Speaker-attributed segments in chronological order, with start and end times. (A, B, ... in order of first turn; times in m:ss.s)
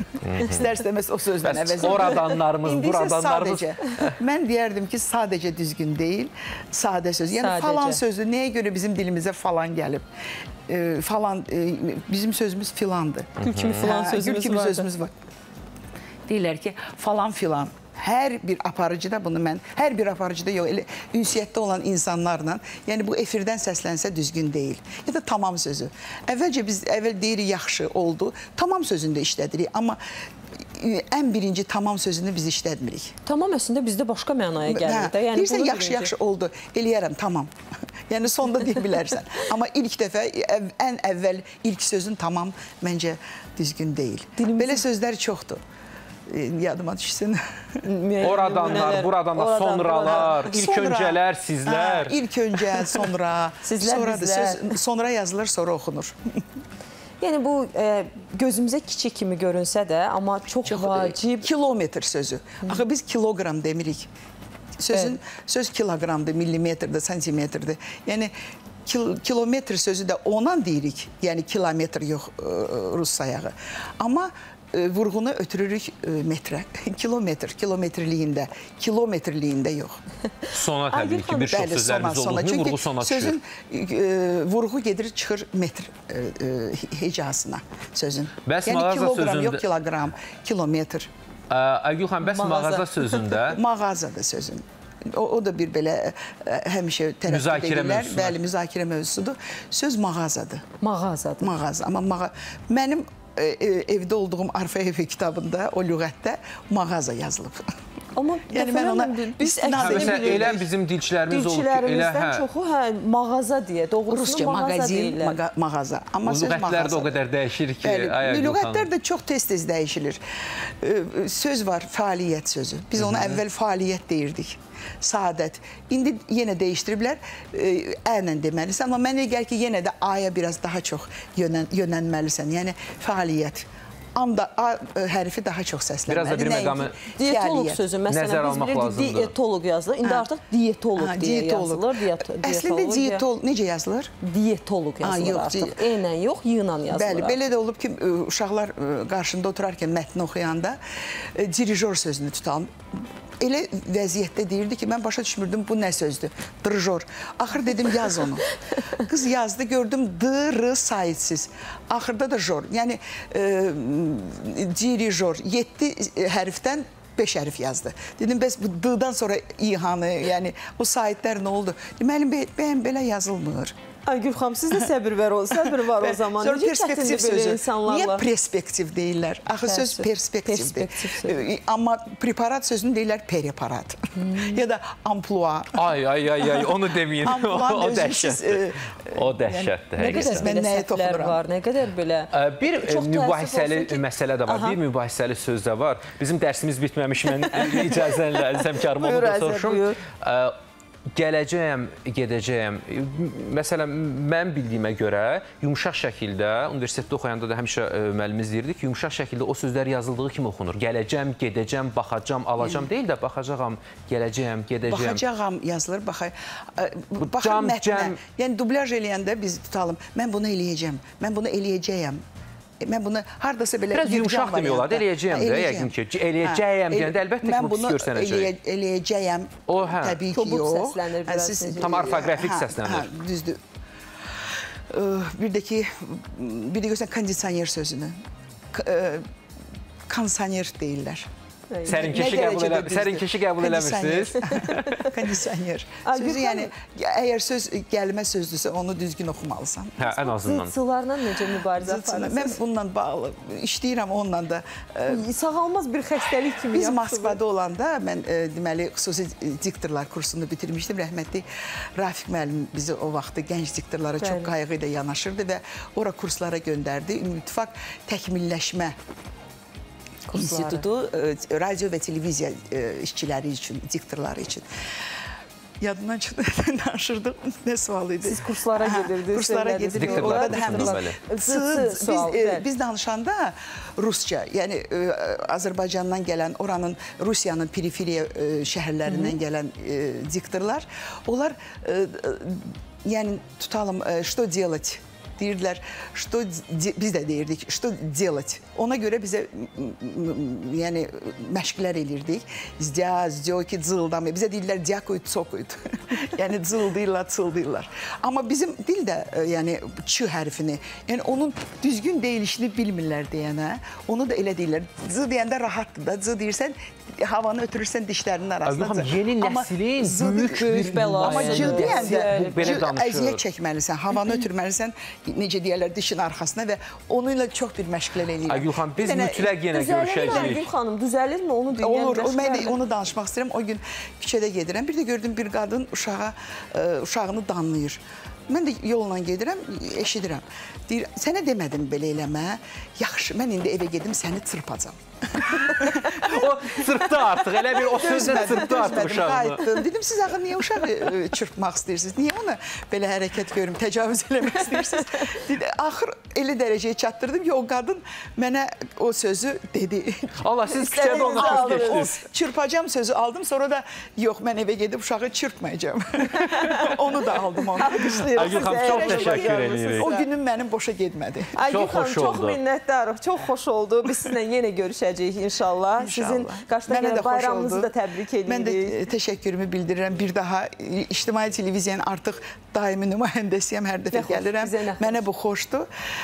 0:00.2-0:00.7 A
0:00.3-0:10.0 B
0:01.4-0:04.2 A
0:07.3-0:08.0 C
0:10.7-0:15.1 B
0:13.4-0:13.9 A
0:13.4-0:14.9 C
0:16.3-0:30.0 B
0:30.8-0:33.2 B
0:33.3-0:36.1 C
0:34.7-0:37.5 B
0:38.1-0:45.6 B
0:44.4-0:44.8 C
0:46.3-0:47.4 B
0:47.8-0:50.6 C
0:48.2-0:52.2 A
0:48.7-0:49.0 B
0:50.1-0:56.2 B
0:52.7-0:53.1 C
0:53.6-0:54.8 C
0:57.2-1:01.5 C
1:00.7-1:04.1 B
1:04.8-1:08.3 B
1:08.8-1:20.0 B
1:20.5-1:21.6 C
1:20.5-1:23.4 A
1:21.5-1:31.1 B
1:28.5-1:29.6 A
1:31.5-1:33.6 A
1:32.2-1:33.4 C
1:33.5-1:40.6 B
1:37.3-1:38.4 A
1:40.8-1:41.5 C
1:41.4-1:47.7 B
1:48.2-1:50.6 C
1:48.5-1:50.6 B
1:49.8-1:52.5 A
1:51.3-1:55.4 C
1:54.1-1:57.2 B
1:56.2-1:58.9 A
1:57.8-2:00.2 B
2:00.8-2:17.8 B
2:03.0-2:03.4 A
2:16.1-2:17.0 A
2:17.0-2:23.2 C
2:18.1-2:19.3 A
2:20.0-2:20.3 B
2:21.0-2:24.1 B
2:24.2-2:27.4 C
2:25.0-2:25.8 B
2:26.9-2:32.7 B
2:33.4-2:53.7 B
2:54.1-2:58.3 C
2:55.6-3:05.8 B
2:59.6-3:01.4 C
3:04.2-3:04.6 C
3:05.8-3:10.5 A
3:06.5-3:11.4 B
3:10.0-3:14.8 C
3:12.3-3:20.6 A
3:17.4-3:20.0 C
3:21.1-3:35.2 A
3:32.6-3:32.9 B
3:34.9-3:42.2 B
3:37.2-3:38.2 A
3:42.8-3:53.6 B
3:43.9-3:48.5 A
3:49.7-3:50.2 A
3:50.3-3:52.2 C
3:51.8-3:53.1 A
3:54.9-3:58.2 B
3:58.7-3:59.2 B
4:00.1-4:01.3 B
4:01.7-4:02.5 C
4:01.9-4:05.1 A
4:01.9-4:10.0 B
4:04.6-4:04.9 C
4:06.0-4:06.7 C
4:10.0-4:10.7 A
4:10.2-4:12.6 C
4:11.7-4:15.2 B
4:15.1-4:17.4 C
4:16.7-4:21.4 B
4:22.0-4:28.9 B
4:24.2-4:24.5 C
4:30.3-4:30.9 C
4:30.3-4:34.6 B
4:35.8-5:29.6 B
4:38.2-4:42.6 C
4:40.0-4:41.2 A
4:49.1-4:49.4 C
5:18.6-5:23.4 A
5:20.5-5:22.8 C
5:28.5-5:30.7 A
5:29.7-5:32.8 C
5:30.2-5:30.6 B
5:31.7-5:46.5 B
5:45.7-5:49.6 A
5:47.6-6:11.6 B
5:54.7-5:55.0 C
6:00.4-6:02.1 A
6:00.8-6:02.1 C
6:06.3-6:07.0 C
6:07.7-6:10.3 C
6:08.3-6:10.1 A
6:11.5-6:19.0 C
6:11.7-6:12.6 A
6:16.0-6:17.9 B
6:18.4-6:25.9 B
6:24.1-6:25.2 C